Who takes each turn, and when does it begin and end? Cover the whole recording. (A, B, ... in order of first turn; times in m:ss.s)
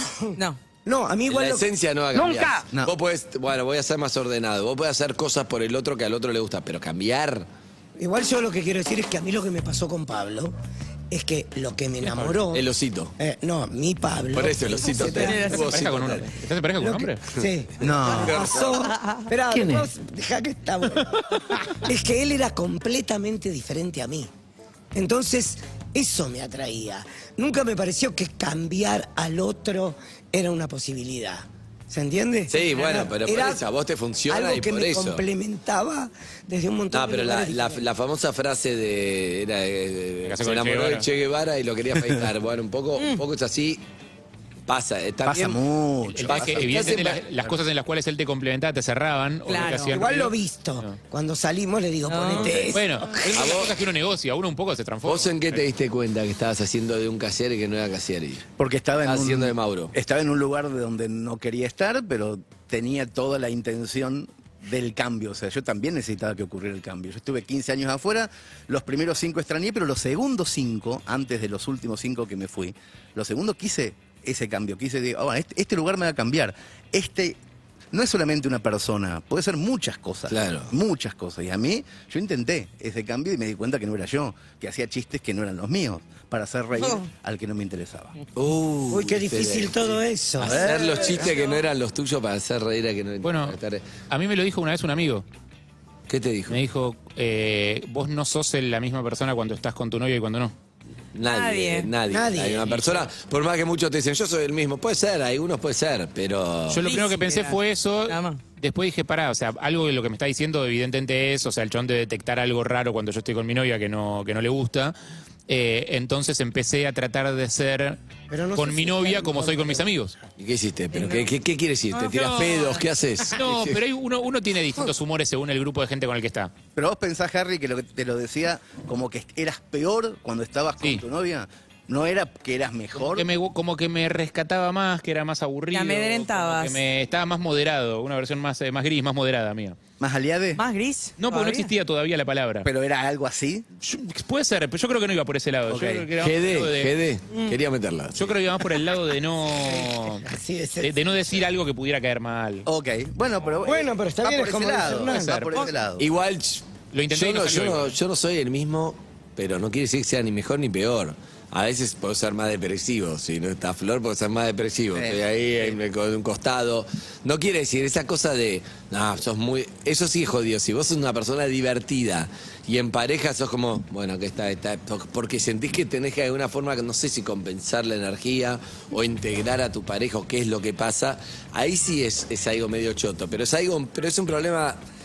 0:00.8-0:02.6 A
0:01.3-0:07.5 B
0:08.0-0:10.6 A
0:11.1-0:12.7 A
0:12.1-0:12.3 C
0:12.5-0:13.1 B
0:13.2-0:15.6 A
0:14.3-0:16.4 B
0:15.1-0:15.8 D
0:15.6-0:17.2 C
0:16.8-0:24.3 A
0:17.4-0:18.9 B
0:17.8-0:18.5 E
0:24.9-0:33.6 A
0:32.5-0:35.2 B
0:34.3-0:37.8 A
0:36.9-0:43.8 B
0:40.2-0:41.1 C
0:43.0-0:43.2 D
0:44.7-0:45.6 B
0:45.3-0:47.6 E
0:46.0-0:51.0 C
0:46.2-0:47.2 B
0:49.5-0:50.0 D
0:49.9-0:53.2 A
0:52.1-0:52.7 D
0:52.7-0:55.6 C
0:53.3-0:53.8 B
0:55.0-0:58.5 B
0:58.6-1:17.4 E
0:59.0-0:59.9 B
1:17.9-1:28.2 E
1:20.3-1:20.7 B
1:26.8-1:27.0 D
1:28.4-1:33.9 B
1:28.9-1:30.7 A
1:30.4-1:31.3 E
1:30.9-1:31.4 D
1:33.2-1:35.2 C
1:36.1-1:36.6 B
1:36.5-1:40.5 C
1:41.1-1:46.8 B
1:41.2-1:41.9 D
1:42.1-1:42.8 A
1:46.7-1:55.0 C
1:46.8-1:48.4 D
1:55.5-1:58.0 C
1:58.3-1:59.9 A
1:58.6-2:00.1 C
2:00.4-2:03.8 B
2:01.0-2:01.2 D
2:01.9-2:02.8 D
2:02.1-2:02.6 C
2:03.3-2:06.5 C
2:06.8-2:13.3 E
2:13.1-2:19.8 C
2:15.7-2:16.8 D
2:20.0-2:20.6 E
2:20.6-2:21.7 D
2:21.2-2:22.7 C
2:22.6-2:23.7 E
2:23.8-2:27.0 C
2:25.7-2:26.1 E
2:26.2-2:28.4 B
2:28.2-2:30.3 C
2:29.6-2:31.4 A
2:30.8-2:32.7 C
2:32.7-2:36.0 E
2:33.6-2:35.7 A
2:36.0-3:04.8 B
2:36.9-2:38.0 C
2:45.0-2:45.7 E